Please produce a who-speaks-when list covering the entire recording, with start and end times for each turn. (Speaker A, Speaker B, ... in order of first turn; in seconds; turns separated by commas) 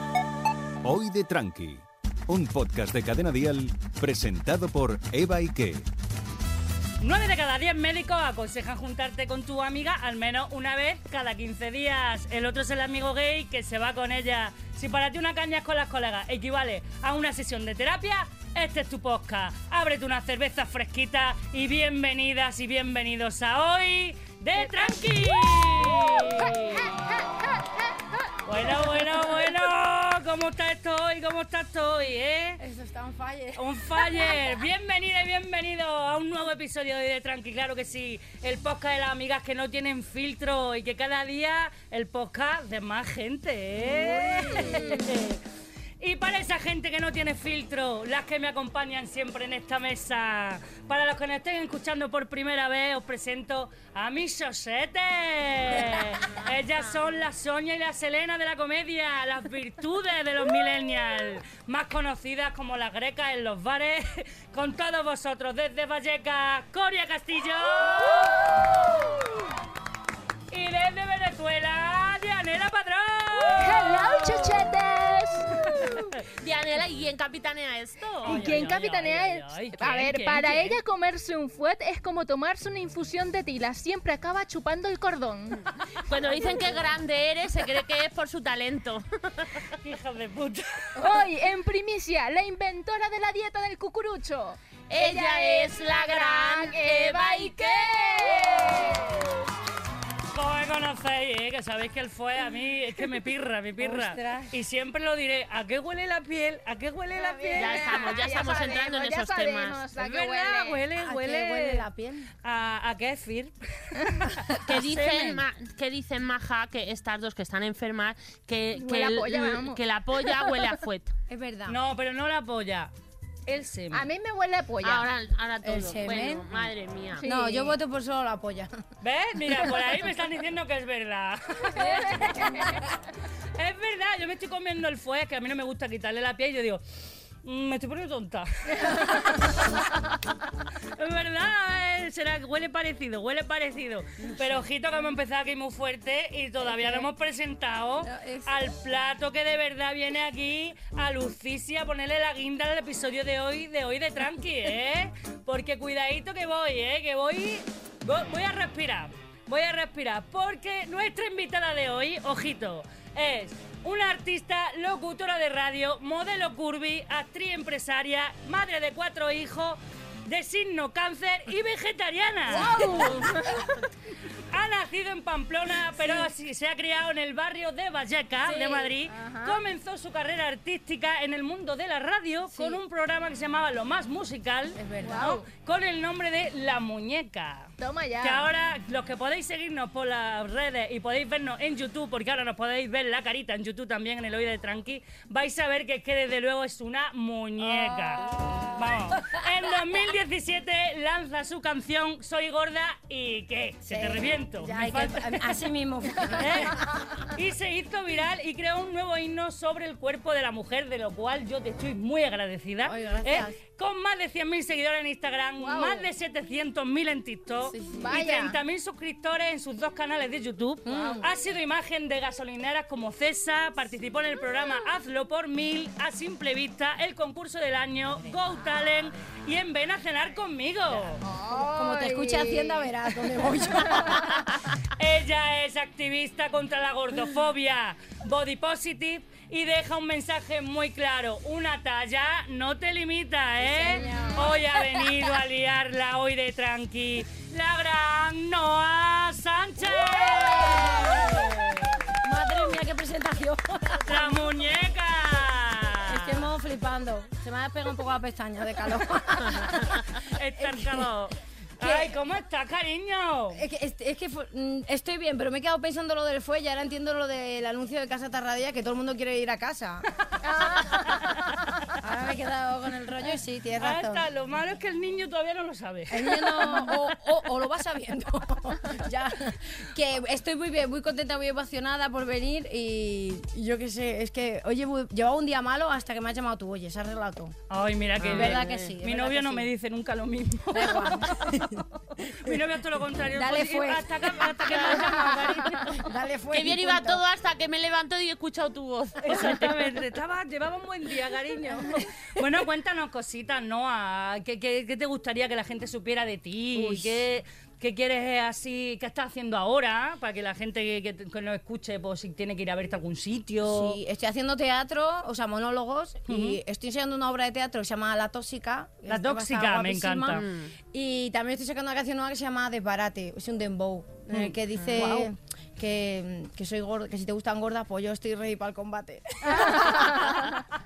Speaker A: 0.8-5.8, Speaker B: 7.0-26.9, Speaker B: 28.4-32.6, Speaker C: 32.6-34.4, Speaker B: 33.6-45.4, Speaker C: 44.3-44.9, Speaker B: 46.0-69.3, Speaker B: 70.5-74.5, Speaker D: 73.5-76.1, Speaker E: 76.4-78.6, Speaker B: 78.2-80.8, Speaker D: 78.2-85.7, Speaker E: 86.0-89.5, Speaker D: 86.3-86.8, Speaker B: 89.8-91.3, Speaker D: 91.0-99.5, Speaker E: 94.9-99.0, Speaker B: 100.3-108.0, Speaker C: 103.8-104.6, Speaker D: 107.1-110.8, Speaker E: 107.5-109.9, Speaker B: 110.0-111.9, Speaker C: 111.0-112.3, Speaker B: 112.4-115.4, Speaker E: 114.6-121.1, Speaker D: 118.8-120.6, Speaker C: 121.3-121.8, Speaker B: 121.7-122.9, Speaker B: 123.5-124.1, Speaker D: 123.9-125.1, Speaker E: 124.8-127.2, Speaker C: 125.6-126.5, Speaker D: 127.2-127.8, Speaker C: 127.2-128.7, Speaker B: 129.0-132.9, Speaker D: 131.7-132.8, Speaker B: 133.6-136.8, Speaker B: 137.4-139.8, Speaker B: 141.0-173.7, Speaker C: 146.6-147.1, Speaker C: 148.0-148.6, Speaker D: 172.5-173.6, Speaker C: 172.6-173.2, Speaker E: 172.8-173.1, Speaker B: 174.5-187.7, Speaker D: 178.4-179.6, Speaker C: 182.5-182.8, Speaker C: 184.8-185.3, Speaker D: 185.0-185.5, Speaker D: 187.8-188.5, Speaker B: 188.2-205.5, Speaker C: 197.6-198.0, Speaker C: 203.9-206.8, Speaker B: 206.3-231.2, Speaker C: 212.8-213.6, Speaker D: 215.6-216.1, Speaker C: 217.7-218.6, Speaker D: 217.9-218.5, Speaker C: 220.8-221.3, Speaker D: 231.2-232.9, Speaker C: 231.5-234.6, Speaker B: 234.0-234.4, Speaker B: 235.0-252.0, Speaker C: 243.6-244.7, Speaker D: 243.8-244.4, Speaker C: 249.8-254.5, Speaker B: 254.1-256.4, Speaker C: 256.1-260.0, Speaker B: 260.2-263.6, Speaker C: 260.6-261.1, Speaker C: 261.8-262.1, Speaker C: 263.5-270.1, Speaker D: 270.4-271.7, Speaker C: 272.0-274.3, Speaker B: 273.8-277.1, Speaker C: 276.1-287.6, Speaker B: 287.7-296.1, Speaker E: 288.2-288.9, Speaker C: 288.2-289.7, Speaker C: 290.7-292.6, Speaker C: 293.3-297.2, Speaker D: 295.1-295.8, Speaker E: 296.5-299.8, Speaker B: 299.2-314.0, Speaker C: 299.3-299.6, Speaker C: 306.7-307.2, Speaker C: 313.6-330.5, Speaker B: 316.3-316.6, Speaker B: 319.1-320.5, Speaker E: 320.4-320.7, Speaker B: 324.3-325.3, Speaker E: 324.7-325.1, Speaker D: 329.4-330.5